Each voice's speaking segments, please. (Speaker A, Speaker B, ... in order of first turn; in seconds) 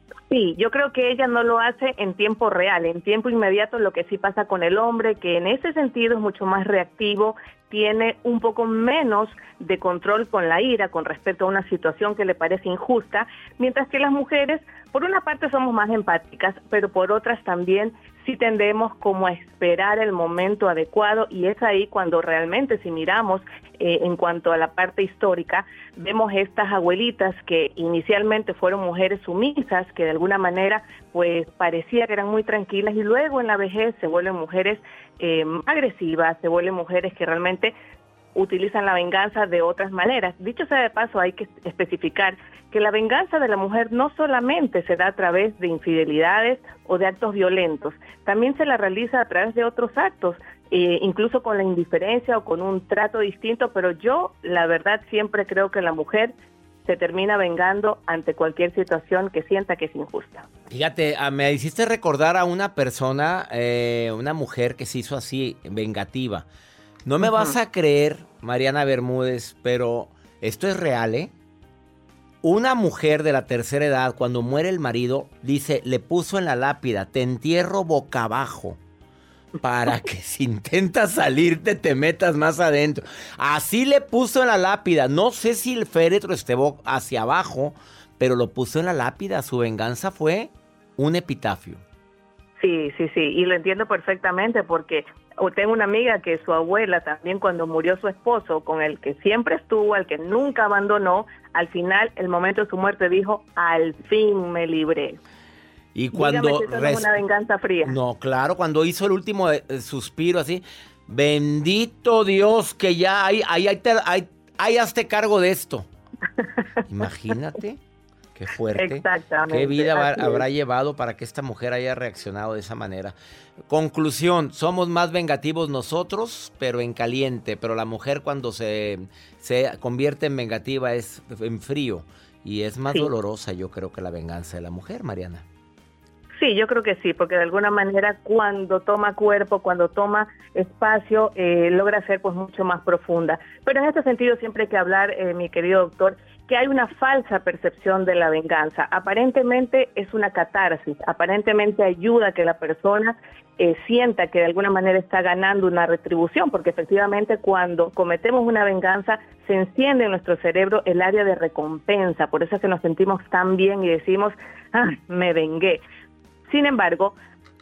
Speaker A: 0.3-37.7, 38.3-56.3, 56.8-60.4, 67.2-67.5, 92.6-105.2, 106.1-107.9, 116.4-116.7, 118.8-120.4, 136.4-165.8, 166.5-167.2
Speaker B: 60.7-66.5, 67.0-71.3, 72.4-78.8, 79.6-91.8, 105.9-107.1, 107.8-115.9, 116.9-117.8, 118.3-123.1, 123.7-135.4